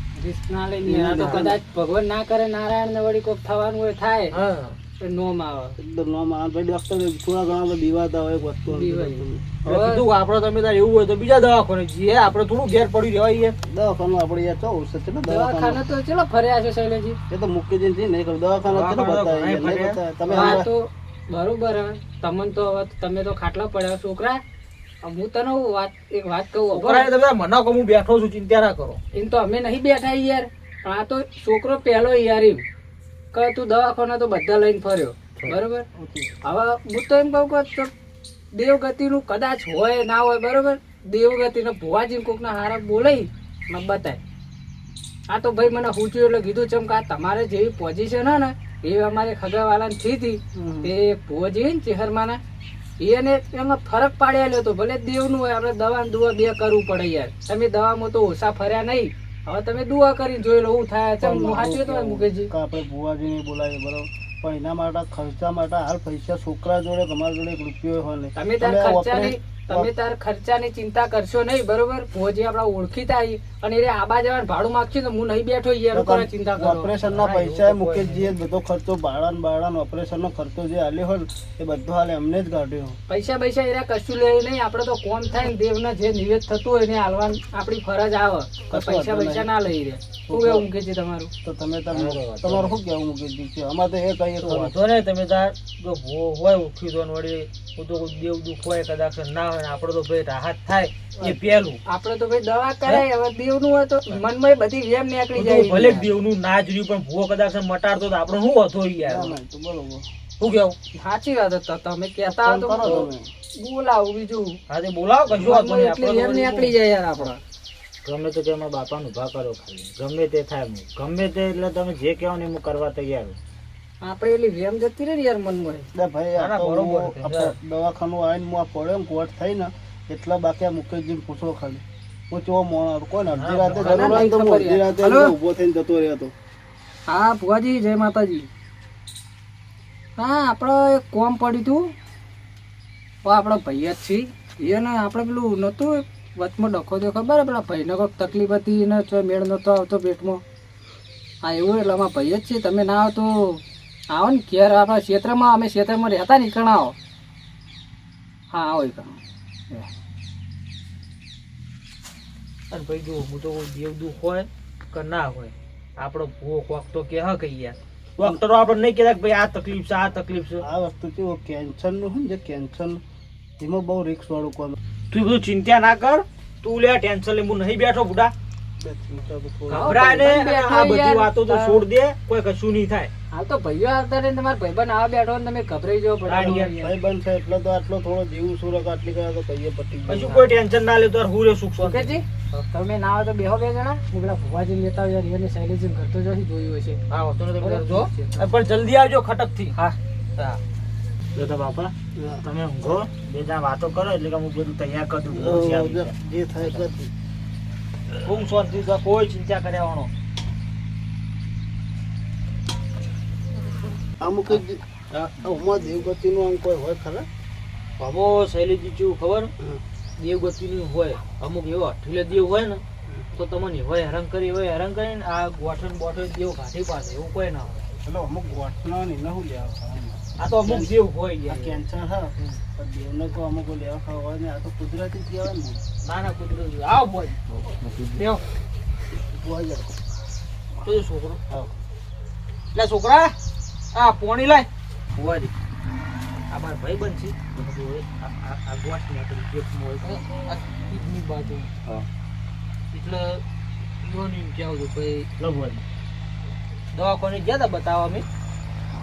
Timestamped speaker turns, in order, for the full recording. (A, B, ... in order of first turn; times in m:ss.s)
0:00.2-0:04.4 A
0:00.8-0:01.6 B
0:01.1-0:01.5 C
0:04.3-0:04.8 C
0:04.9-0:05.8 A
0:05.8-0:09.8 B
0:08.7-0:10.1 A
0:09.6-0:13.6 C
0:13.7-0:15.8 B
0:15.2-0:17.2 A
0:17.3-0:20.7 B
0:18.7-0:20.6 C
0:20.3-0:24.4 A
0:25.0-0:27.1 A
0:26.7-0:29.0 C
0:29.1-0:32.6 A
0:33.3-0:35.9 A
0:36.0-0:36.3 B
0:36.4-0:37.9 A
0:38.5-0:44.2 A
0:45.3-0:52.4 A
0:50.6-0:50.9 B
0:53.0-1:02.5 A
1:01.2-1:09.9 B
1:08.4-1:16.9 A
1:15.9-1:23.0 B
1:17.0-1:18.3 C
1:23.1-1:31.3 A
1:28.7-1:29.5 B
1:30.3-1:30.7 B
1:31.4-1:34.8 B
1:31.9-1:32.8 D
1:34.4-1:41.8 C
1:41.8-1:46.1 A
1:45.3-1:49.4 C
1:49.0-1:50.1 B
1:50.4-1:50.8 C
1:50.9-1:54.6 A
1:52.3-1:53.3 B
1:54.7-1:56.8 C
1:55.5-1:57.4 A
1:58.0-2:03.4 D
2:04.0-2:05.9 A
2:06.0-2:16.3 B
2:06.4-2:07.6 C
2:13.4-2:14.3 C
2:13.9-2:15.4 A
2:17.1-2:18.5 A
2:20.2-2:21.9 A
2:23.2-2:30.4 A
2:31.4-2:37.0 A
2:38.5-2:39.2 A
2:42.7-2:50.6 C
2:50.6-2:53.0 B
2:53.6-2:54.8 B
2:55.1-2:58.3 C
2:58.8-3:00.3 B
2:59.7-3:01.8 A
2:59.7-3:03.1 C
3:03.3-3:07.0 A
3:06.3-3:06.8 C
3:06.4-3:10.5 B
3:10.1-3:12.2 C
3:11.8-3:17.0 A
3:17.1-3:20.6 C
3:17.6-3:18.7 A
3:21.4-3:26.8 D
3:22.2-3:22.4 B
3:25.3-3:27.1 B
3:28.2-3:30.1 C
3:34.2-3:34.8 B
3:35.4-3:37.3 B
3:38.0-3:39.5 C
3:40.2-3:42.8 C
3:43.3-3:47.8 C
3:48.1-3:51.0 B
3:50.4-3:51.8 C
3:51.5-3:55.8 B
3:56.0-3:57.4 C
3:58.2-3:58.4 C
3:59.3-3:59.9 B
4:00.8-4:01.4 C
4:02.8-4:03.3 C
4:03.9-4:05.5 C
4:06.5-4:11.7 C
4:12.9-4:13.4 C
4:14.0-4:15.3 C
4:15.4-4:15.8 D
4:16.9-4:18.3 C